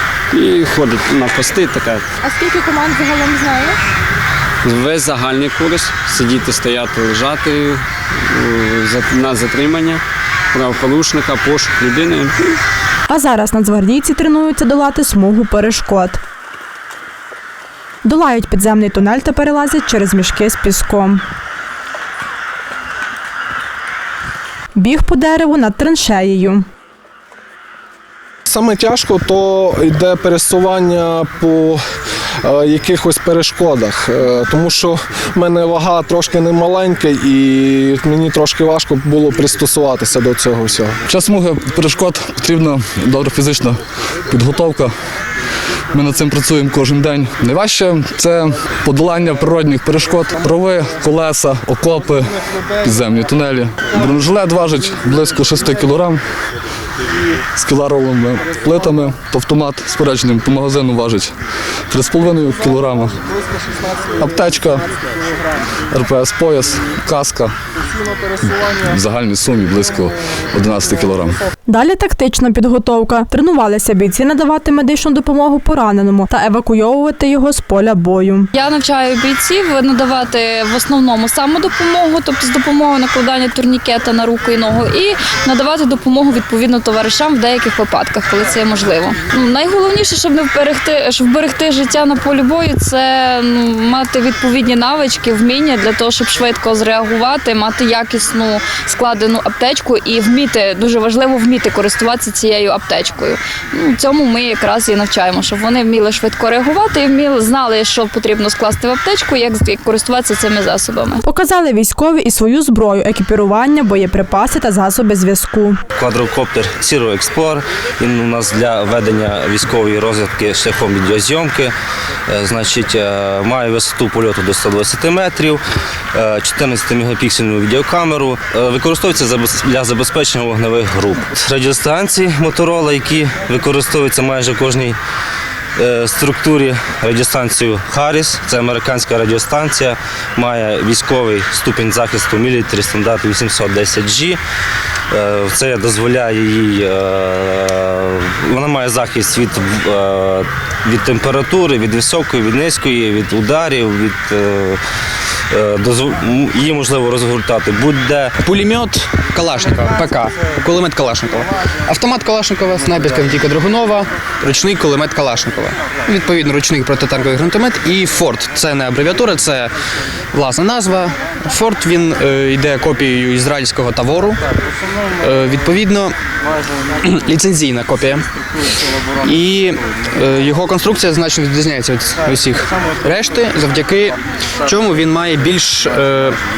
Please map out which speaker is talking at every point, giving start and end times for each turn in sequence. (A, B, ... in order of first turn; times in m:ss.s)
0:00.3-0:02.0 A
0:02.2-0:03.8 B
0:04.6-0:07.8 A
0:08.3-0:10.0 A
0:10.5-0:12.3 A
0:13.1-0:16.2 B
0:18.0-0:21.2 B
0:24.7-0:26.6 B
0:28.4-0:31.8 C
0:32.4-0:41.0 C
0:41.1-0:43.8 D
0:44.3-0:44.9 D
0:45.9-0:52.3 D
0:52.8-0:56.2 D
0:57.6-1:01.3 D
1:01.9-1:03.1 D
1:04.2-1:04.8 D
1:05.9-1:07.5 D
1:08.5-1:11.4 D
1:11.7-1:18.5 B
1:18.5-1:51.2 E
1:51.2-1:55.8 B
1:55.9-2:01.7 F
2:02.3-2:05.6 F
2:06.1-2:15.0 F
2:15.8-2:24.4 F
2:25.1-2:34.8 F
2:35.5-2:38.3 F
2:38.5-2:49.7 G
2:50.3-2:54.4 G
2:55.2-2:56.1 G
2:57.2-2:58.2 G
2:59.2-3:06.4 G